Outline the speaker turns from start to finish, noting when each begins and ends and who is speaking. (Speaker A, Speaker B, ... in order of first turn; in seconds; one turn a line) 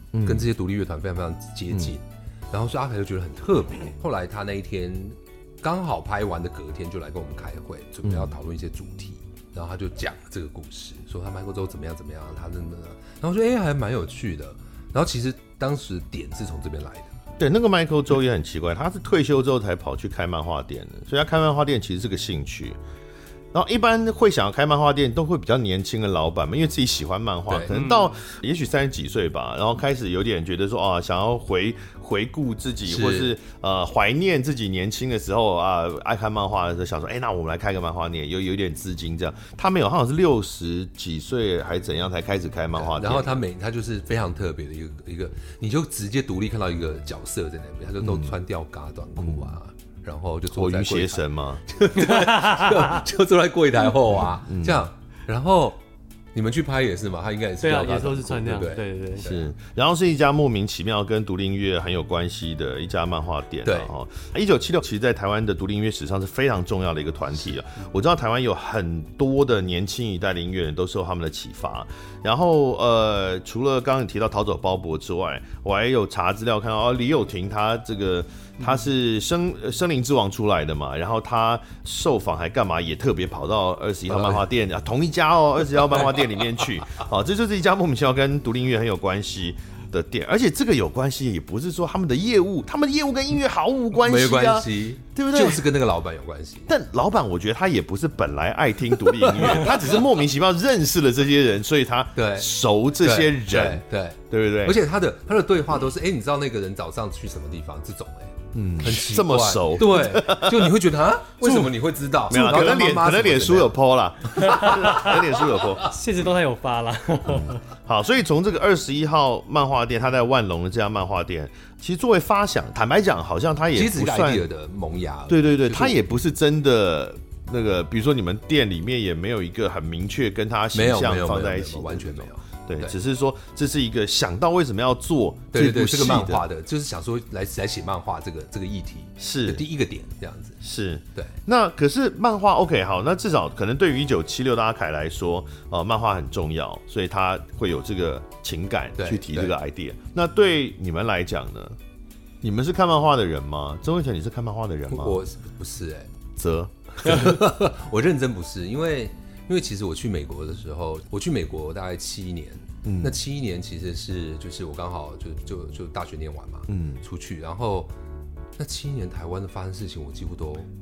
Speaker A: 0.1-0.5
Speaker B: 0.2-17.1
Speaker A: 8.0-8.3
Speaker A: 17.4-22.8
Speaker A: 23.5-43.4
Speaker B: 27.5-27.9
Speaker C: 27.7-28.0
Speaker B: 32.9-33.3
Speaker B: 42.7-55.8
Speaker A: 48.0-48.4
Speaker A: 49.2-49.6
Speaker A: 50.5-51.6
Speaker C: 52.1-53.0
Speaker A: 54.4-54.9
Speaker B: 56.3-59.5
Speaker C: 57.6-59.3
Speaker A: 59.2-95.6
Speaker B: 63.6-63.9
Speaker B: 84.1-84.4
Speaker B: 94.0-96.7
Speaker A: 96.7-104.8
Speaker B: 99.3-99.7
Speaker B: 102.2-102.5
Speaker B: 103.0-113.8
Speaker A: 108.5-110.7
Speaker C: 111.4-111.7
Speaker A: 112.3-115.9
Speaker B: 114.3-115.1
Speaker C: 114.4-115.2
Speaker C: 115.8-117.6
Speaker A: 117.2-124.5
Speaker B: 123.7-126.0
Speaker A: 125.3-136.4
Speaker B: 130.7-133.0
Speaker B: 135.5-140.6
Speaker A: 139.2-139.6
Speaker A: 140.6-151.8
Speaker B: 149.0-149.5
Speaker A: 152.4-155.2
Speaker B: 154.9-156.1
Speaker A: 156.3-157.4
Speaker B: 157.0-167.9
Speaker A: 162.8-163.2
Speaker A: 166.7-167.0
Speaker B: 168.6-170.7